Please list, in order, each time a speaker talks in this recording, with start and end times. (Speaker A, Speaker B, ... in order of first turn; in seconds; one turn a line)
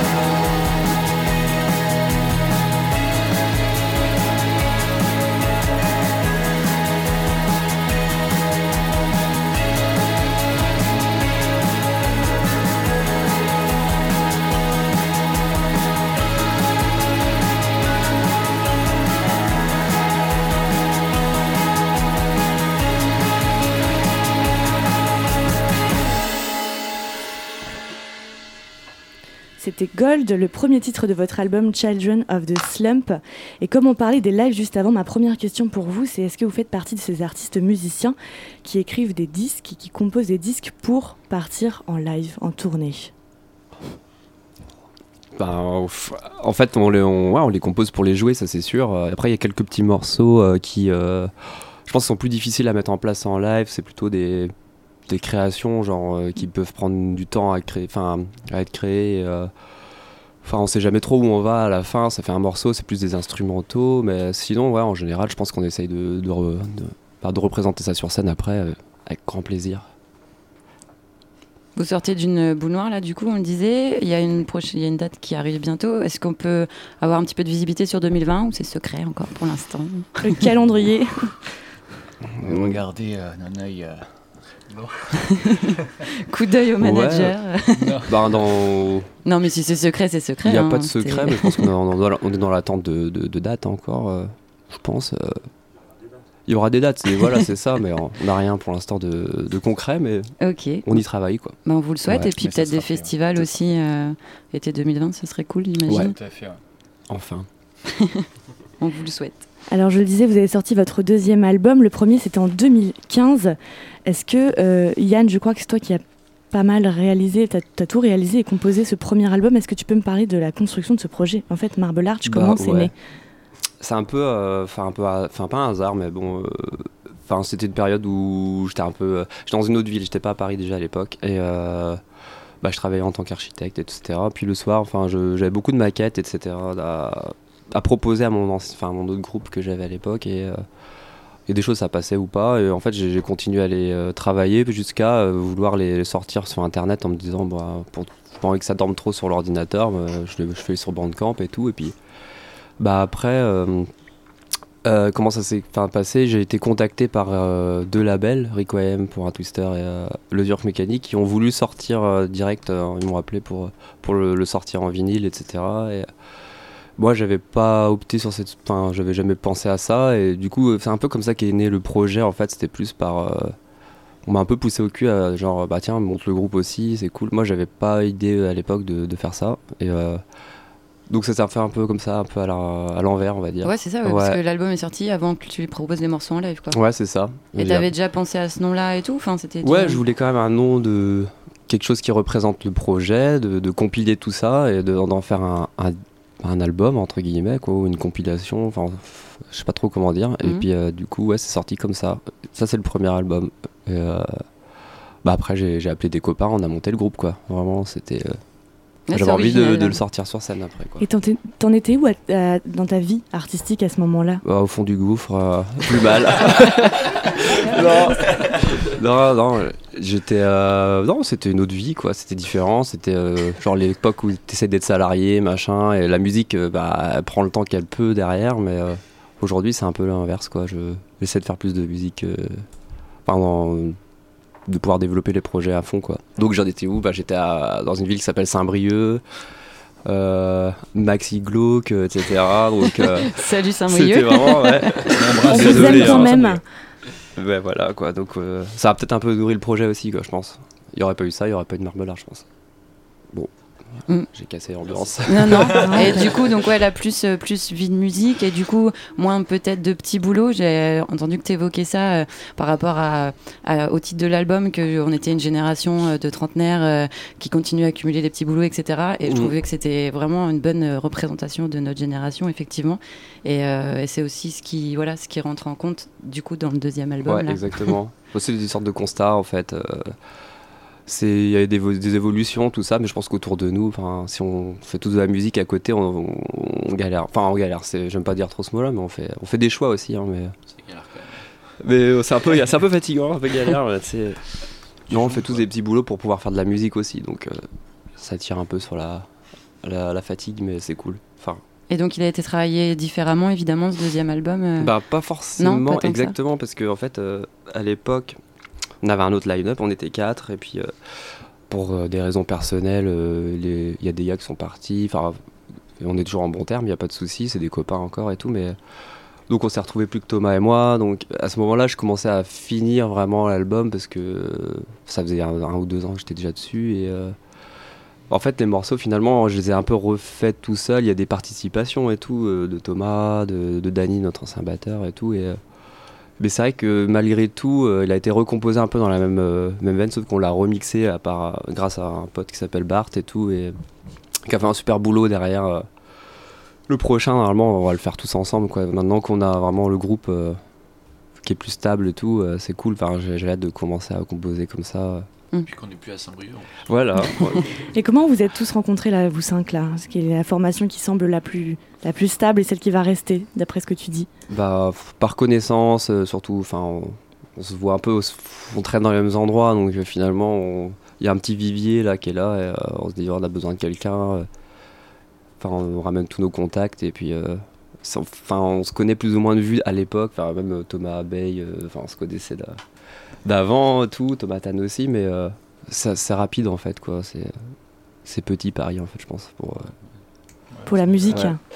Speaker A: 29.6-43.1
Speaker B: 45.3-54.5
Speaker B: 55.1-59.5
Speaker B: 60.4-69.9
Speaker C: 71.8-80.1
Speaker A: 80.2-81.3
Speaker B: 82.4-82.8
Speaker D: 82.4-84.1
Speaker D: 84.7-85.7
Speaker C: 86.3-88.0
Speaker B: 86.8-87.3
Speaker D: 87.8-88.1
Speaker B: 88.1-89.1
Speaker C: 89.2-91.7
Speaker B: 90.4-95.5
Speaker B: 96.5-100.3
Speaker C: 100.4-101.0
Speaker B: 100.8-101.5
Speaker C: 101.6-106.1
Speaker D: 102.1-103.8
Speaker D: 105.9-106.6
Speaker B: 107.1-107.5
Speaker C: 108.8-109.4
Speaker A: 109.7-122.9
Speaker B: 122.2-122.9
Speaker B: 123.8-132.0
Speaker B: 132.6-140.6
Speaker B: 141.5-151.9
Speaker B: 152.8-153.9
Speaker B: 154.8-166.1
Speaker B: 167.0-173.6
Speaker B: 174.2-180.2
Speaker B: 181.1-184.4
Speaker C: 183.6-186.8
Speaker B: 186.7-187.9
Speaker C: 187.6-190.0
Speaker B: 189.6-204.4
Speaker B: 205.2-208.4
Speaker B: 209.1-211.1
Speaker C: 209.1-210.0
Speaker A: 211.0-214.4
Speaker B: 214.4-217.1
Speaker A: 217.6-218.4
Speaker B: 217.7-232.7
Speaker B: 233.2-234.0
Speaker B: 234.7-239.2
Speaker B: 240.0-246.6
Speaker C: 243.2-246.2
Speaker D: 245.2-246.1
Speaker A: 245.5-246.6
Speaker B: 247.2-252.4
Speaker B: 253.3-256.4
Speaker C: 255.2-277.9
Speaker A: 255.8-256.2
Speaker B: 269.2-269.5
Speaker B: 277.2-280.1
Speaker B: 281.1-290.5
Speaker E: 290.8-291.4
Speaker B: 291.8-301.6
Speaker E: 295.1-295.6
Speaker C: 301.9-304.9
Speaker B: 304.8-308.4
Speaker C: 305.6-306.3
Speaker B: 309.0-310.9
Speaker B: 311.7-315.4
Speaker B: 316.0-318.8
Speaker B: 319.5-327.4
Speaker B: 328.3-335.6
Speaker B: 336.4-343.8
Speaker B: 344.4-345.9
Speaker B: 346.9-350.6
Speaker B: 351.4-355.3
Speaker E: 355.6-356.9
Speaker B: 356.9-357.8
Speaker A: 357.9-364.3
Speaker B: 364.5-374.5
Speaker B: 375.6-382.8
Speaker B: 383.4-389.9
Speaker D: 390.7-391.5
Speaker A: 390.9-391.6
Speaker B: 391.2-391.6